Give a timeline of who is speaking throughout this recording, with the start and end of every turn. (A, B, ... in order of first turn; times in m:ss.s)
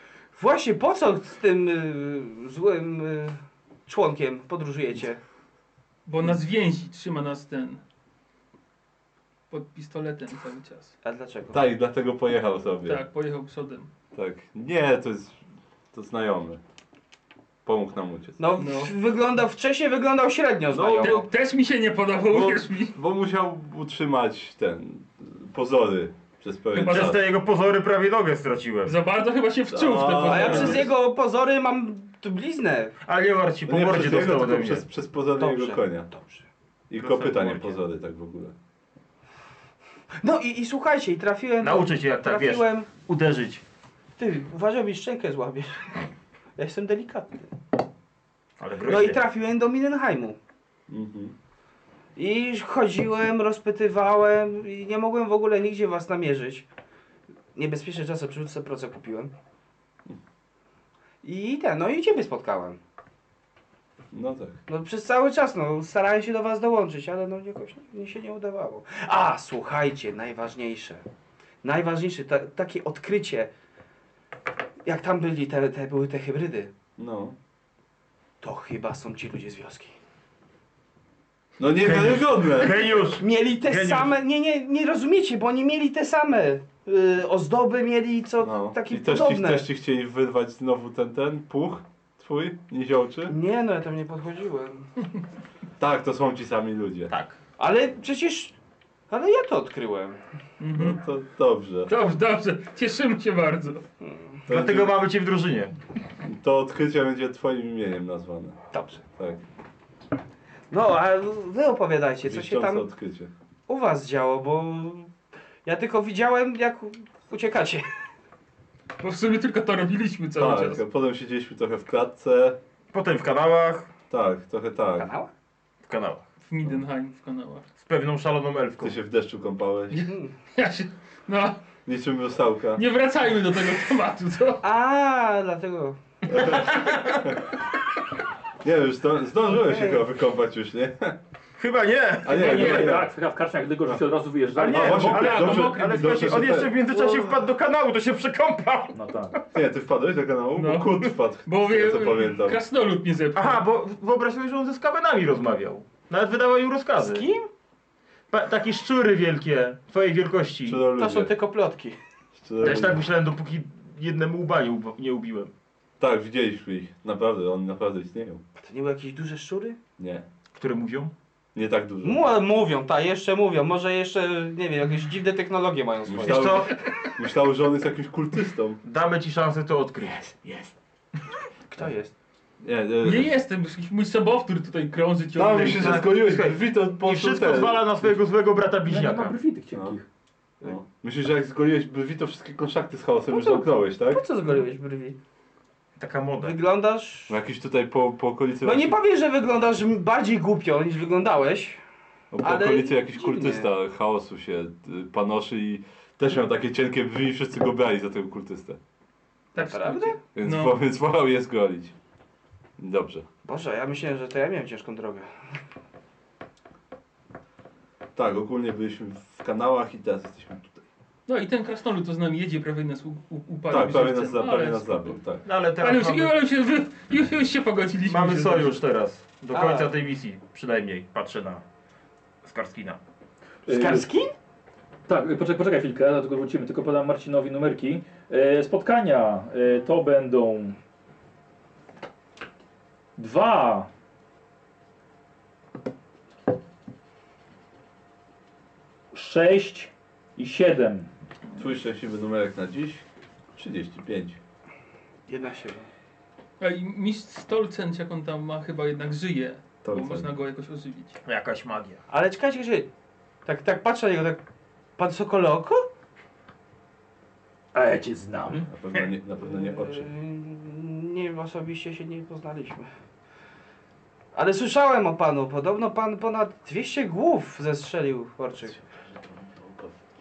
0:00.3-0:05.2 A
0:06.1-0:07.8 B
0:09.5-0:10.9 B
0:11.0-0:11.6 A
0:11.5-0:13.0 C
0:12.9-0:13.9 B
0:14.1-0:15.4 C
0:15.9-0:16.6 C
0:17.6-0:18.5 C
0:18.4-0:21.3 A
0:18.6-0:18.9 B
0:20.7-0:21.3 C
0:21.0-0:23.0 B
0:22.3-0:27.2 C
0:26.7-0:27.2 B
0:26.8-0:29.0 D
0:28.9-0:30.9 B
0:29.7-0:30.9 C
0:30.2-0:33.0 A
0:33.0-0:34.8 D
0:33.7-0:36.1 C
0:35.4-0:36.5 A
0:36.9-0:38.5 C
0:37.0-0:37.8 D
0:40.2-0:42.9 A
0:41.6-0:43.6 D
0:44.2-0:46.0 A
0:46.6-0:47.5 A
0:48.6-0:49.2 D
0:48.8-0:50.4 A
0:50.9-0:51.3 C
0:52.2-0:56.7 A
0:57.6-0:59.3 A
1:01.2-1:02.8 A
1:04.1-1:04.6 C
1:04.7-1:11.0 A
1:11.6-1:13.5 A
1:14.8-1:16.7 A
1:17.0-1:17.4 C
1:18.4-1:20.0 A
1:21.6-1:22.9 C
1:21.8-1:24.1 D
1:23.2-1:29.6 A
1:28.4-1:33.4 C
1:33.3-1:34.9 A
1:35.8-1:37.1 C
1:37.1-1:37.4 D
1:37.6-1:38.5 A
1:39.1-1:40.2 A
1:40.6-1:41.0 B
1:40.7-1:41.9 C
1:41.9-1:43.8 B
1:44.0-1:44.4 A
1:44.5-1:45.7 D
1:44.5-1:45.0 C
1:46.2-1:48.6 C
1:48.7-1:49.0 A
1:49.2-1:49.4 C
1:50.7-1:52.9 A
1:52.2-1:53.3 C
1:53.7-1:55.1 A
1:55.6-1:57.8 A
1:59.0-2:00.8 B
2:00.4-2:02.6 C
2:02.9-2:03.9 D
2:04.1-2:05.1 C
2:05.0-2:05.3 A
2:05.8-2:06.3 D
2:06.4-2:07.7 B
2:07.8-2:09.0 D
2:08.8-2:10.1 C
2:09.9-2:11.6 B
2:10.1-2:10.3 A
2:11.9-2:12.8 C
2:12.8-2:14.6 B
2:14.6-2:16.0 A
2:16.3-2:17.3 D
2:16.3-2:16.7 C
2:18.6-2:21.2 C
2:19.5-2:20.0 A
2:21.6-2:23.0 D
2:22.2-2:23.1 C
2:22.3-2:25.5 E
2:22.3-2:22.9 B
2:24.6-2:29.0 D
2:24.7-2:26.8 C
2:25.0-2:26.3 B
2:26.9-2:27.4 A
2:28.9-2:29.4 E
2:29.5-2:32.6 C
2:30.6-2:33.6 B
2:33.4-2:37.3 D
2:37.0-2:37.5 A
2:38.3-2:40.8 D
2:40.6-2:41.3 C
2:40.9-2:42.0 A
2:42.4-2:43.0 C
2:42.6-2:45.5 D
2:46.0-2:48.4 C
2:48.6-2:49.8 A
2:50.0-2:50.3 C
2:50.5-2:51.1 D
2:51.6-2:52.2 C
2:52.0-2:56.7 A
2:56.1-2:58.8 C
2:56.2-2:56.8 D
2:58.8-3:00.4 D
3:00.2-3:00.7 A
3:01.7-3:02.1 A
3:02.6-3:03.3 C
3:03.0-3:06.0 B
3:05.4-3:08.1 C
3:05.7-3:09.4 D
3:08.9-3:10.0 E
3:09.7-3:10.0 C
3:10.6-3:14.6 C
3:13.3-3:15.2 A
3:16.0-3:16.6 D
3:16.4-3:17.4 A
3:17.3-3:19.0 C
3:18.6-3:21.8 A
3:22.3-3:28.8 C
3:22.4-3:23.7 A
3:29.5-3:30.8 B
3:29.6-3:30.2 A
3:30.4-3:32.0 C
3:32.8-3:33.3 C
3:33.4-3:35.3 A
3:38.2-3:40.8 C
3:41.3-3:45.2 B
3:43.7-3:45.4 C
3:45.4-3:46.4 D
3:45.8-3:48.8 B
3:48.0-3:51.6 D
3:49.5-3:49.9 A
3:52.4-3:53.0 D
3:53.7-3:54.1 E
3:53.7-3:54.3 A
3:55.1-4:00.8 E
4:03.2-4:03.9 E
4:09.1-4:11.1 E
4:11.6-4:14.4 C
4:15.3-4:15.9 A
4:16.6-4:21.2 B
4:19.8-4:20.3 C
4:21.3-4:22.0 D
4:22.1-4:22.9 A
4:23.4-4:24.4 A
4:25.0-4:25.9 A
4:27.7-4:28.7 E
4:28.7-4:30.1 C
4:29.4-4:32.9 A
4:34.3-4:38.8 A
4:39.0-4:39.9 C